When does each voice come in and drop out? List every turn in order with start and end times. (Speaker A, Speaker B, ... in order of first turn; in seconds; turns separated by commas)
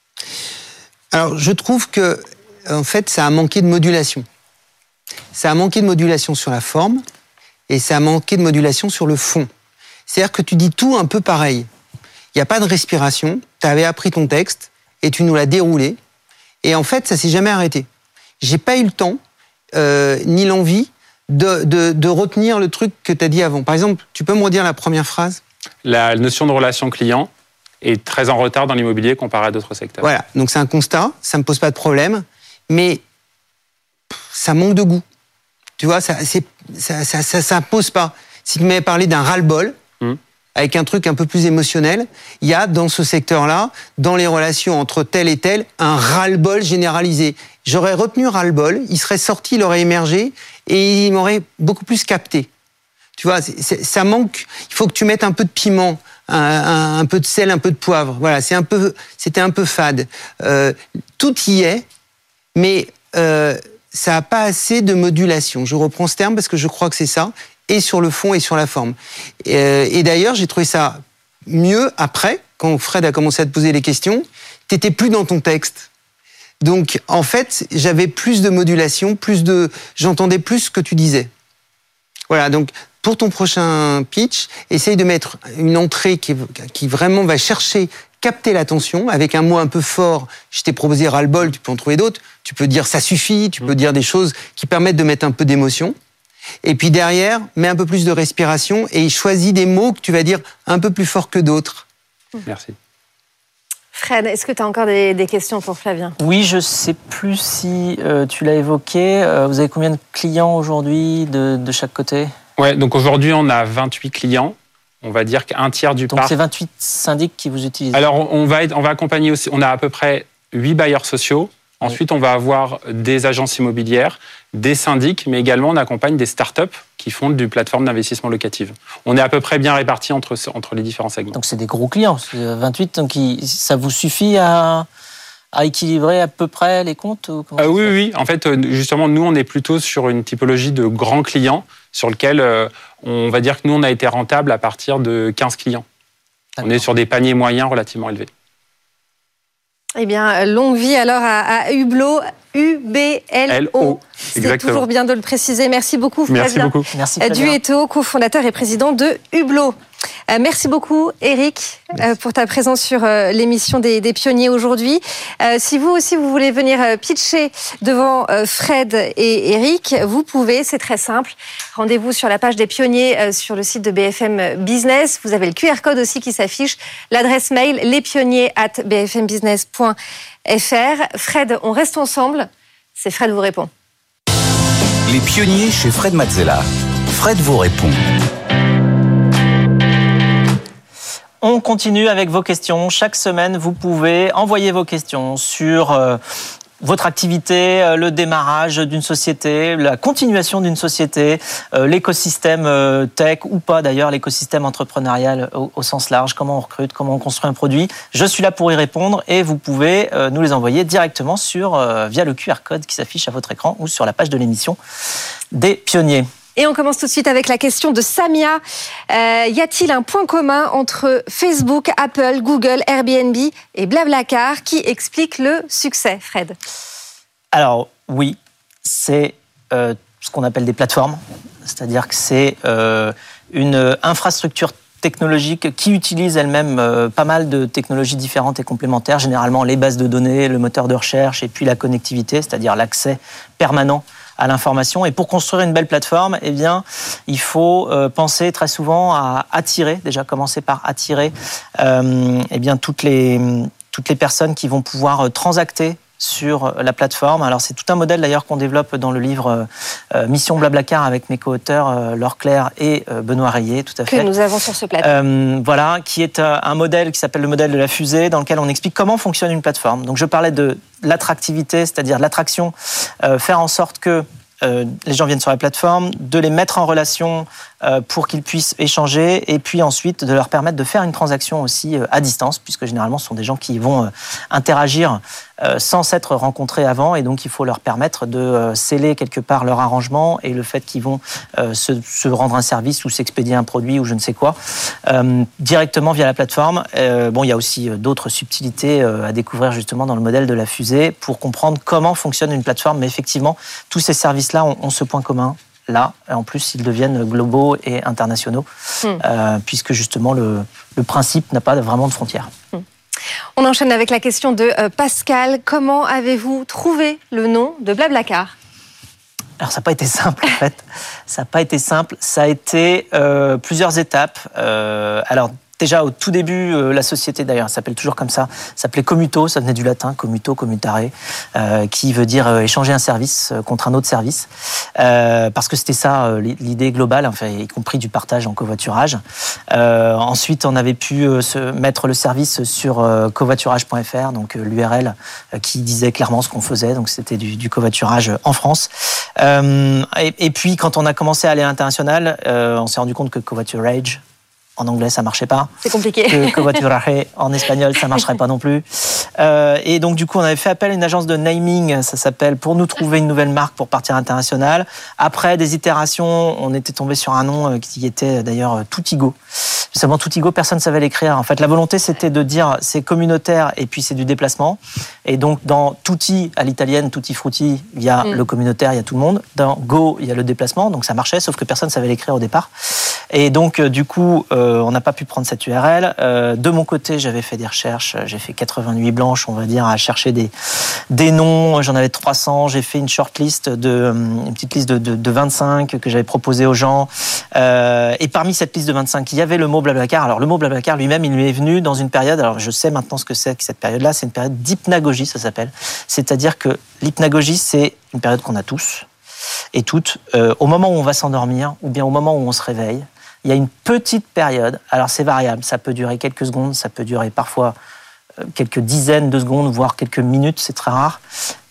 Speaker A: 1.1-4.3, Speaker A: 5.3-7.0, Speaker A: 7.7-9.5, Speaker A: 10.1-11.7, Speaker A: 12.3-16.0, Speaker A: 16.6-17.9, Speaker A: 18.4-19.2, Speaker A: 19.7-25.4, Speaker B: 25.9-27.3, Speaker B: 27.8-30.1, Speaker A: 30.0-33.0, Speaker A: 34.3-35.0, Speaker A: 35.8-39.8, Speaker A: 40.6-52.5, Speaker A: 53.2-61.9, Speaker A: 62.5-75.9, Speaker A: 76.6-81.3, Speaker A: 82.3-96.0, Speaker A: 96.6-101.8, Speaker B: 102.5-102.8, Speaker C: 103.9-106.2, Speaker D: 106.2-112.3, Speaker B: 112.6-116.4, Speaker D: 116.1-118.0, Speaker B: 117.9-131.4, Speaker D: 131.3-134.9, Speaker D: 135.5-137.9, Speaker B: 137.6-145.8, Speaker B: 146.6-148.3, Speaker C: 150.0-159.8, Speaker B: 153.5-154.8, Speaker B: 156.3-156.9, Speaker D: 156.9-157.6, Speaker C: 160.3-183.7, Speaker E: 185.1-188.1, Speaker D: 191.4-196.2, Speaker D: 196.8-214.8, Speaker D: 215.5-216.3, Speaker C: 216.6-226.6, Speaker D: 227.5-264.3, Speaker C: 264.1-265.1, Speaker D: 265.0-308.7, Speaker D: 309.2-312.5, Speaker C: 313.6-318.5, Speaker D: 319.6-339.2, Speaker D: 339.7-354.2, Speaker D: 354.8-355.7, Speaker C: 355.8-356.8, Speaker D: 356.3-369.4, Speaker D: 369.9-382.7, Speaker D: 383.3-390.5, Speaker D: 391.1-409.1, Speaker D: 409.7-417.8, Speaker D: 418.5-421.2